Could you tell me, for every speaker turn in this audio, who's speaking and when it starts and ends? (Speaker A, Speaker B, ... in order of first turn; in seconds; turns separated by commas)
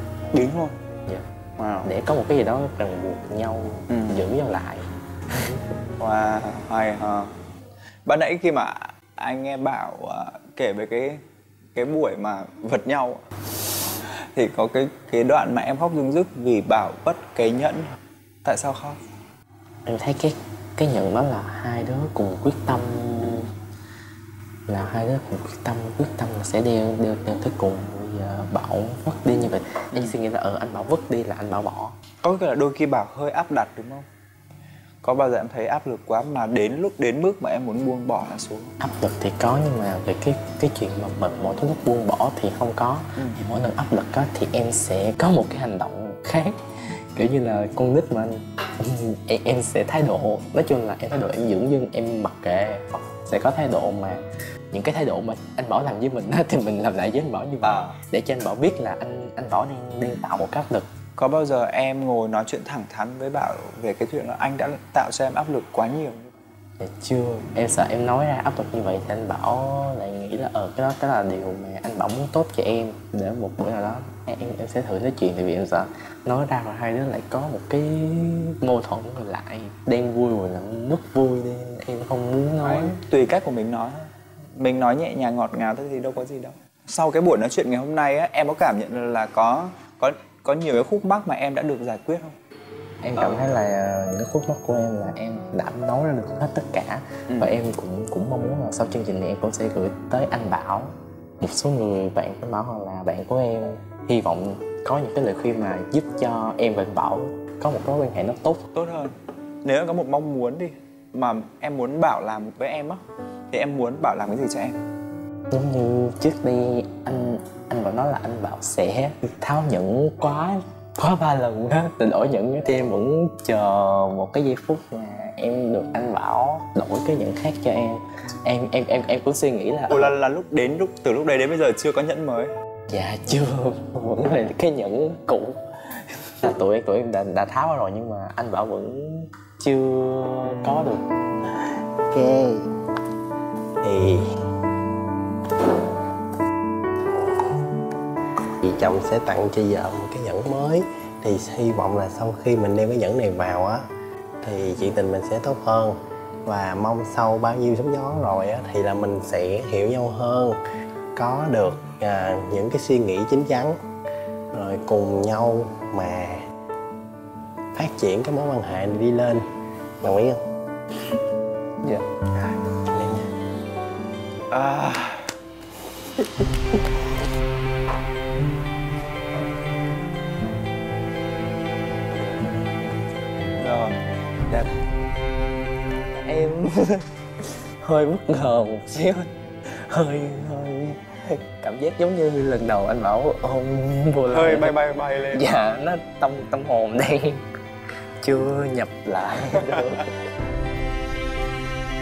Speaker A: 0.3-0.8, Speaker A: 1.6-1.9, Speaker B: 1.8-5.6, Speaker A: 3.9-4.3, Speaker A: 6.0-7.3, Speaker A: 8.1-11.2, Speaker A: 11.7-13.2, Speaker A: 13.9-19.0, Speaker B: 19.9-23.5, Speaker B: 24.7-31.9, Speaker A: 29.9-30.2, Speaker A: 32.2-34.0, Speaker A: 35.0-38.7, Speaker B: 38.8-46.5, Speaker B: 47.1-60.9, Speaker A: 57.6-58.0, Speaker A: 61.2-66.3, Speaker B: 66.8-82.9, Speaker A: 82.6-92.3, Speaker B: 93.0-108.6, Speaker A: 93.2-93.6, Speaker A: 97.3-97.5, Speaker A: 108.7-114.8, Speaker B: 115.5-130.1, Speaker A: 129.9-132.5, Speaker B: 132.9-141.0, Speaker C: 142.1-142.7, Speaker C: 143.8-144.2, Speaker C: 148.6-153.9, Speaker C: 154.4-160.6, Speaker C: 161.2-163.8, Speaker C: 164.5-166.4, Speaker C: 167.7-169.4, Speaker C: 170.0-170.4, Speaker C: 172.7-173.3, Speaker A: 174.5-175.3, Speaker A: 183.6-184.0, Speaker B: 186.1-194.8, Speaker A: 194.3-195.4, Speaker B: 195.3-197.4, Speaker B: 198.2-200.0